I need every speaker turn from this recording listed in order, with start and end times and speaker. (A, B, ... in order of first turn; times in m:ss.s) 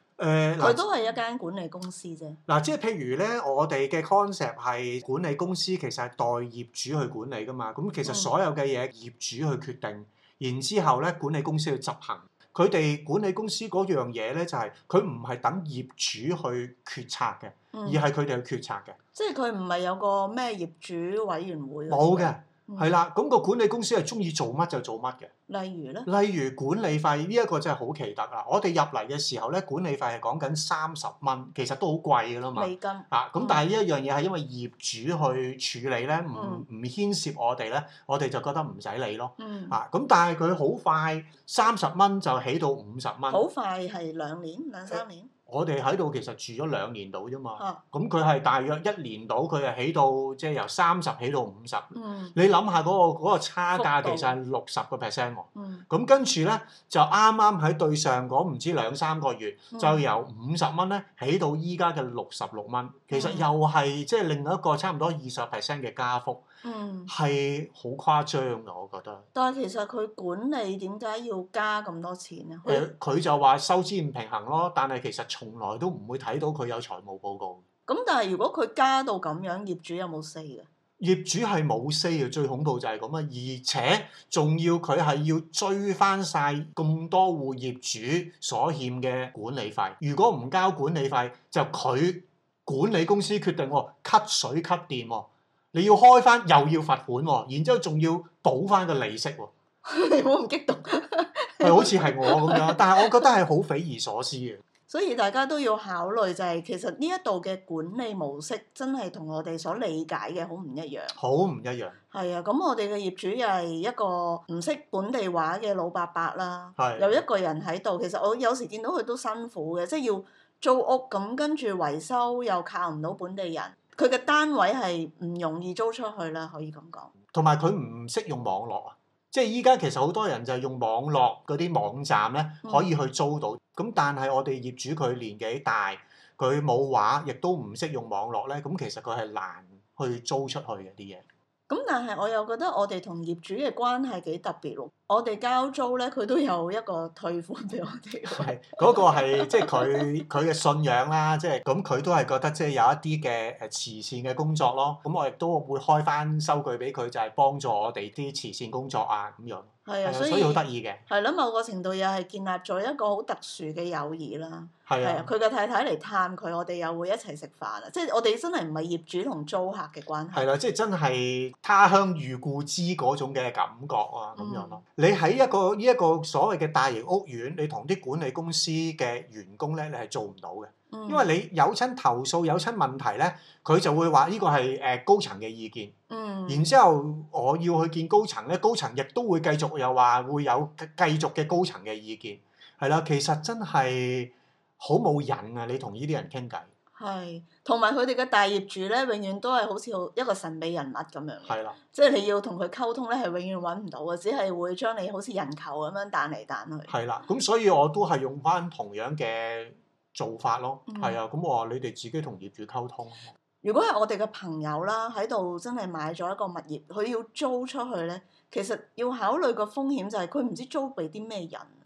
0:00.2-0:00.9 A
0:00.6-0:02.4 B
0:02.5-0:19.0 A
0:08.0-0:08.3 B
0:17.7-0:18.0 B
0:19.2-0:22.9 B
0:21.9-0:25.3 A
0:25.5-0:26.1 B
0:26.1-0:43.4 A
0:32.5-0:33.6 B
0:36.3-0:36.7 B
0:39.4-0:39.8 B
0:43.3-0:45.3 B
0:44.9-1:06.4 A
0:52.0-0:52.4 B
0:53.8-0:54.4 B
0:55.6-0:55.8 B
0:59.7-1:00.0 B
1:03.1-1:03.5 B
1:06.6-1:07.1 B
1:07.1-1:09.3 A
1:09.3-1:12.9 B
1:12.7-1:17.6 A
1:17.9-1:20.7 B
1:21.0-1:39.5 A
1:39.9-1:43.2 B
1:41.6-1:44.6 A
1:44.9-1:51.2 B
1:51.2-1:52.0 A
1:52.1-2:07.1 B
1:56.8-1:57.2 A
2:07.3-2:21.2 A
2:12.6-2:12.9 B
2:21.7-2:30.1 B
2:28.3-2:41.0 A
2:39.9-2:50.5 B
2:44.9-2:45.3 A
2:50.3-3:05.9 A
2:54.4-2:54.8 B
3:00.9-3:01.3 B
3:06.1-3:06.7 B
3:06.5-3:16.7 A
3:17.0-3:26.9 B
3:21.5-3:21.8 A
3:26.9-3:33.3 A
3:30.9-3:31.2 B
3:33.6-3:41.7 B